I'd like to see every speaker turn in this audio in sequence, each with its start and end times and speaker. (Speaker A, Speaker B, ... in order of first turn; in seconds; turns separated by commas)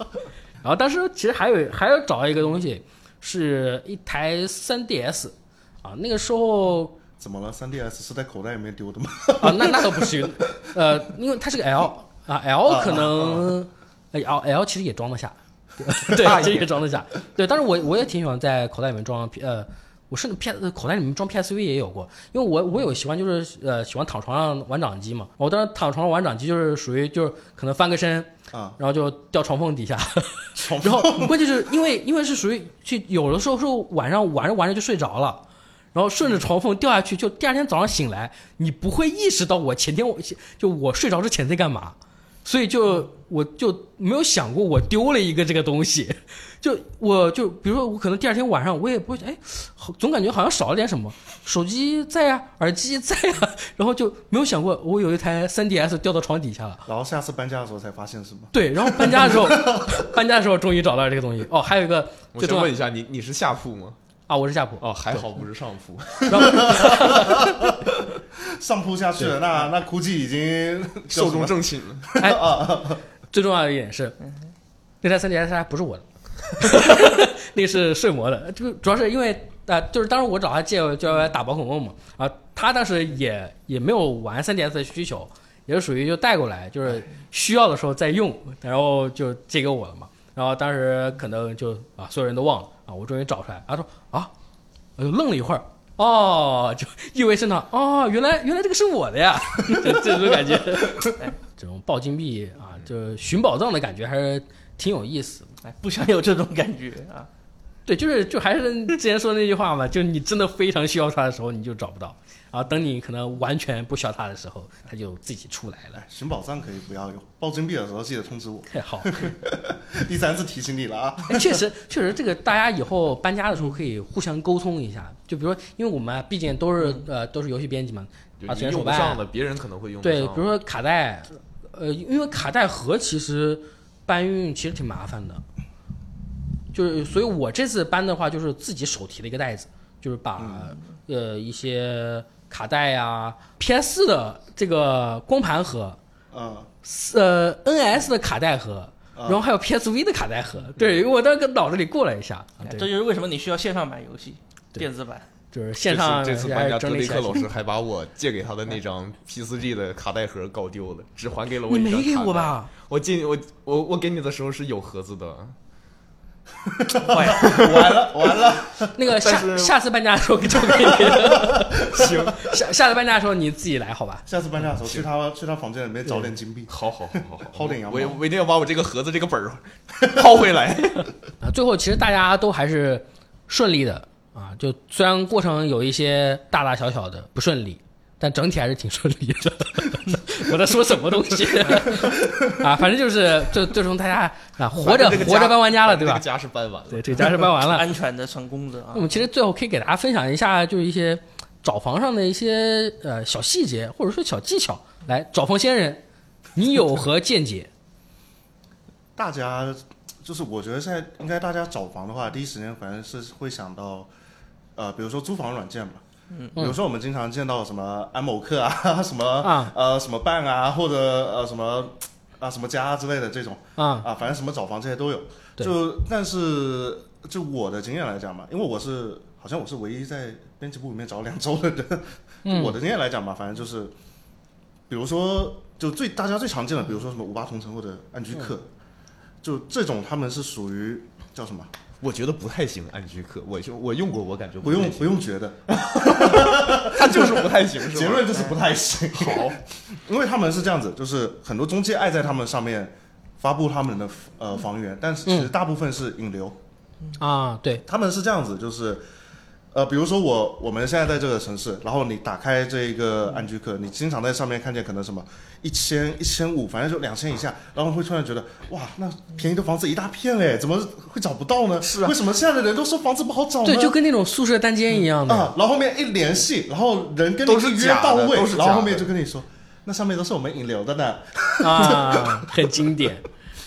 Speaker A: 0.6-7.0, Speaker B: 7.2-10.7, Speaker A: 9.4-35.4, Speaker B: 12.7-13.5, Speaker B: 16.1-16.4, Speaker C: 16.2-16.6, Speaker B: 28.5-28.8, Speaker B: 30.5-31.5, Speaker A: 35.9-56.8, Speaker B: 56.9-60.1, Speaker A: 58.5-62.7, Speaker C: 62.3-64.0, Speaker A: 64.3-64.8, Speaker C: 64.8-66.7, Speaker A: 66.3-67.6, Speaker B: 66.4-73.0, Speaker C: 71.1-72.1, Speaker A: 72.2-72.4, Speaker A: 73.3-74.2, Speaker A: 75.0-94.3, Speaker A: 95.0-105.5, Speaker D: 105.6-107.3, Speaker A: 107.8-116.0, Speaker B: 115.9-121.6, Speaker A: 118.7-119.2, Speaker A: 121.2-129.2, Speaker C: 128.4-130.5, Speaker A: 130.0-135.4, Speaker A: 136.7-146.0, Speaker B: 140.4-140.7, Speaker B: 146.3-146.7, Speaker A: 146.8-152.9, Speaker B: 149.2-149.4, Speaker D: 152.6-155.3, Speaker A: 155.5-157.5, Speaker C: 155.8-165.6, Speaker A: 161.7-162.7, Speaker B: 166.6-168.9, Speaker D: 167.1-167.5, Speaker C: 167.3-168.1, Speaker A: 168.9-174.2, Speaker C: 169.2-169.7, Speaker B: 171.0-172.3, Speaker C: 172.0-172.3, Speaker B: 174.2-178.2, Speaker C: 176.7-181.1, Speaker A: 181.4-196.2, Speaker B: 192.0-192.5, Speaker C: 194.8-197.5, Speaker A: 196.9-197.9, Speaker D: 197.7-199.2, Speaker A: 198.9-206.0, Speaker A: 206.5-207.7, Speaker B: 209.2-214.1, Speaker B: 214.8-216.0, Speaker B: 216.6-233.9, Speaker A: 219.4-219.7, Speaker A: 223.8-224.1, Speaker A: 232.4-232.8, Speaker B: 234.9-238.7, Speaker B: 239.4-241.7, Speaker C: 242.0-245.1, Speaker B: 244.6-256.6, Speaker C: 245.7-248.5, Speaker C: 249.1-249.6, Speaker A: 255.3-255.5, Speaker A: 257.2-257.8, Speaker B: 257.8-259.0, Speaker B: 259.7-274.0, Speaker C: 271.8-272.1, Speaker A: 273.6-275.5, Speaker B: 275.2-282.5, Speaker C: 277.4-279.1, Speaker A: 281.6-283.2